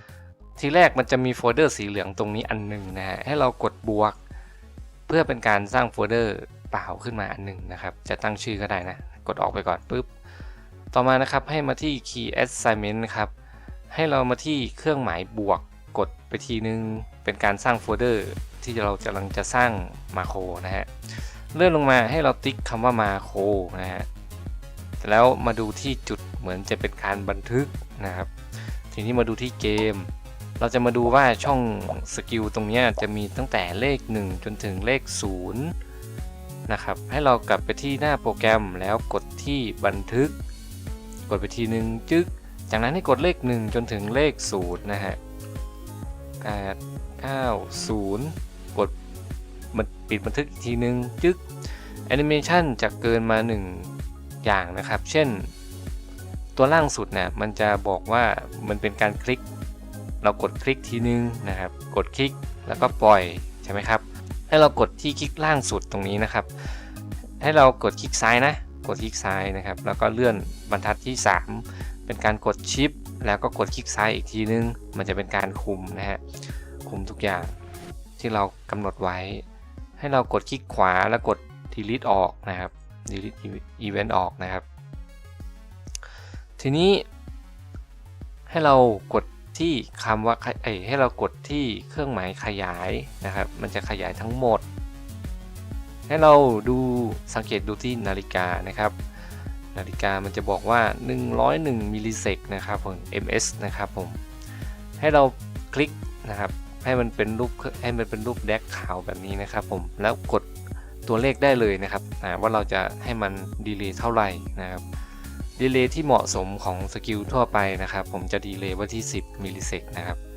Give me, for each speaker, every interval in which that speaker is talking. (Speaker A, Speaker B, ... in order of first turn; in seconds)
Speaker A: 0.6-4.2, 5.1-10.1, 10.9-13.3, 13.9-24.1, 25.0-35.7, 36.7-40.4, 41.3-45.2, 46.4-48.9, 49.7-51.5, 52.1-55.5, 56.6-59.4, 60.2-66.9, 67.4-76.2, 76.8-77.5, 78.2-79.4, 80.0-84.6, 86.6-87.0, 88.5-94.6, 96.1-99.0, 99.7-104.2, 105.0-110.5, 111.1-114.8, 115.6-120.2